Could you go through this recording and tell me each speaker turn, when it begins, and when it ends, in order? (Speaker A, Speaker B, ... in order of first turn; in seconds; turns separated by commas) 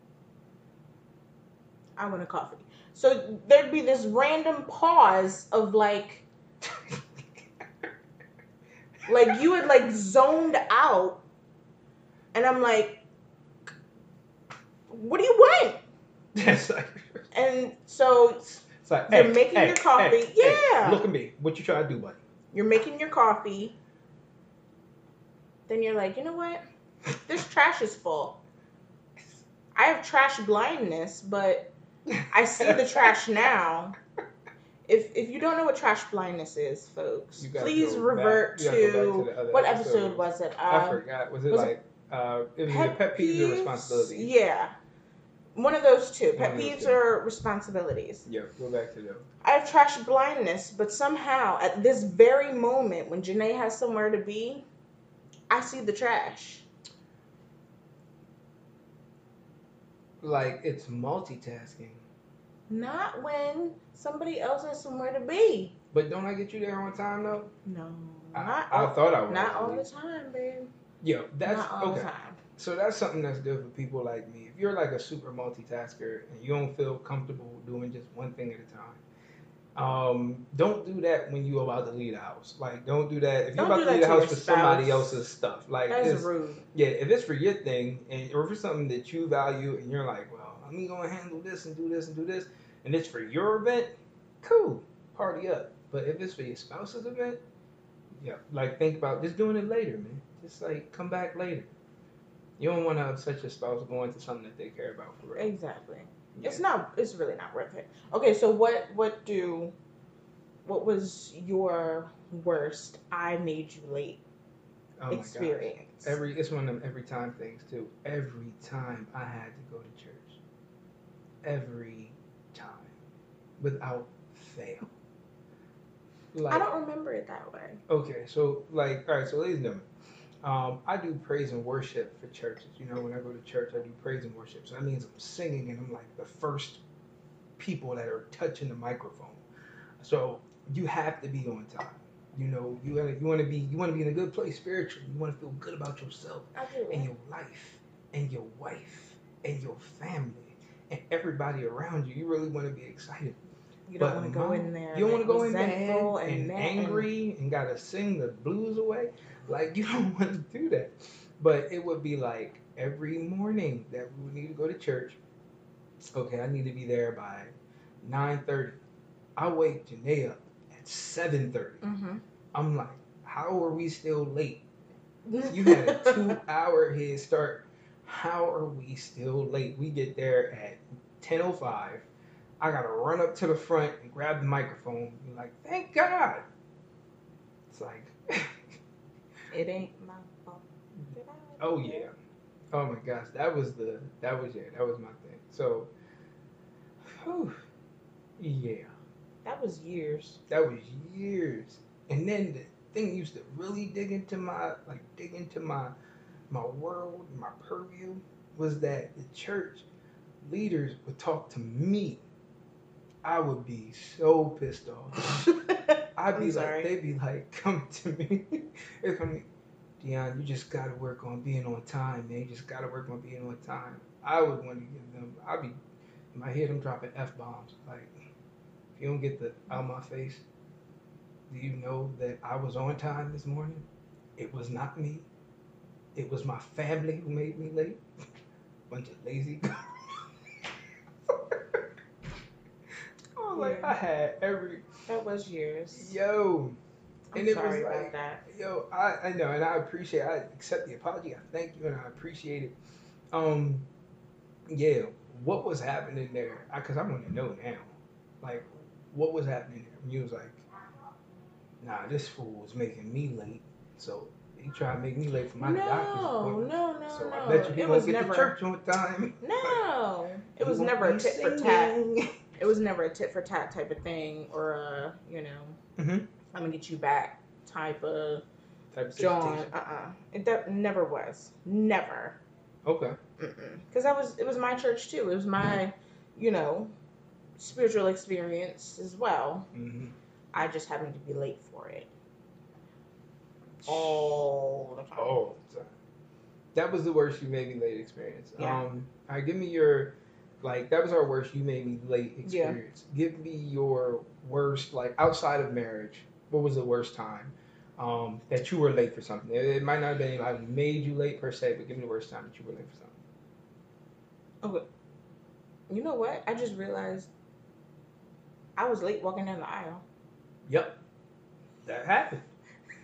Speaker A: 2.0-6.3, Speaker B: 6.7-7.5, Speaker A: 9.1-11.2, Speaker A: 12.3-13.0, Speaker A: 14.9-15.8, Speaker B: 16.3-17.2, Speaker A: 17.3-18.5, Speaker B: 18.5-22.2, Speaker A: 19.1-21.1, Speaker A: 22.5-23.8, Speaker A: 25.7-26.6, Speaker A: 27.2-28.4, Speaker A: 29.8-31.7, Speaker A: 32.3-34.0, Speaker B: 32.6-33.1, Speaker A: 34.9-41.7, Speaker B: 37.4-44.3, Speaker A: 42.7-44.7, Speaker A: 45.6-48.3, Speaker B: 46.4-47.0, Speaker B: 48.3-49.3, Speaker A: 49.4-54.7, Speaker A: 55.5-56.7, Speaker B: 60.2-62.0, Speaker A: 62.7-65.8, Speaker B: 65.9-67.5, Speaker A: 67.7-70.7, Speaker B: 68.3-69.8, Speaker B: 71.0-79.0, Speaker A: 71.4-72.4, Speaker B: 79.8-97.4, Speaker A: 83.6-85.2, Speaker A: 85.9-86.7, Speaker B: 98.2-101.7, Speaker B: 102.6-105.5, Speaker A: 105.4-109.7, Speaker B: 106.3-106.6, Speaker A: 110.7-114.2, Speaker B: 115.0-120.4, Speaker A: 115.1-116.2, Speaker B: 121.4-123.0, Speaker B: 123.6-124.9, Speaker B: 126.3-126.7, Speaker A: 126.5-127.8, Speaker B: 127.9-129.9, Speaker B: 130.4-136.8, Speaker B: 137.6-139.4, Speaker B: 140.0-153.4, Speaker A: 146.6-147.1, Speaker A: 153.9-157.1, Speaker B: 154.0-165.2, Speaker B: 166.1-168.8, Speaker B: 169.4-171.8, Speaker A: 171.8-172.2, Speaker B: 172.5-174.6, Speaker A: 175.3-176.4, Speaker B: 175.4-182.1, Speaker B: 182.6-186.4, Speaker B: 187.7-188.8, Speaker A: 189.5-192.1, Speaker B: 191.6-192.1, Speaker B: 192.7-195.9, Speaker B: 197.1-197.6, Speaker B: 198.4-198.9, Speaker A: 199.4-200.4, Speaker B: 200.5-205.9, Speaker B: 206.5-209.9, Speaker B: 210.4-212.2, Speaker B: 213.2-215.2, Speaker A: 215.5-216.9, Speaker B: 216.2-219.5, Speaker B: 220.0-225.8, Speaker B: 226.3-228.1, Speaker B: 229.0-230.4, Speaker B: 231.5-233.8, Speaker B: 234.4-235.3, Speaker B: 236.2-238.0, Speaker B: 238.9-240.2, Speaker B: 241.3-241.8, Speaker B: 243.4-244.9, Speaker A: 243.5-243.9, Speaker A: 245.1-246.2, Speaker B: 245.9-246.8, Speaker A: 247.3-248.4, Speaker B: 247.3-252.8, Speaker B: 253.3-253.9, Speaker B: 254.7-260.6, Speaker B: 261.8-269.8, Speaker A: 265.6-268.6, Speaker A: 269.4-272.0, Speaker B: 270.6-272.3, Speaker A: 272.6-275.8, Speaker B: 276.0-276.3, Speaker A: 276.5-278.4, Speaker B: 278.9-279.7, Speaker A: 279.2-282.4, Speaker B: 282.9-283.2, Speaker A: 283.4-286.9, Speaker A: 287.6-289.7, Speaker B: 289.7-290.1, Speaker A: 290.5-292.1, Speaker A: 293.9-295.4, Speaker B: 293.9-294.4, Speaker B: 295.2-295.9, Speaker B: 296.8-313.2, Speaker A: 298.6-298.8, Speaker A: 302.4-302.8, Speaker A: 315.9-317.3, Speaker A: 318.8-320.0, Speaker B: 320.7-321.0, Speaker B: 321.9-322.5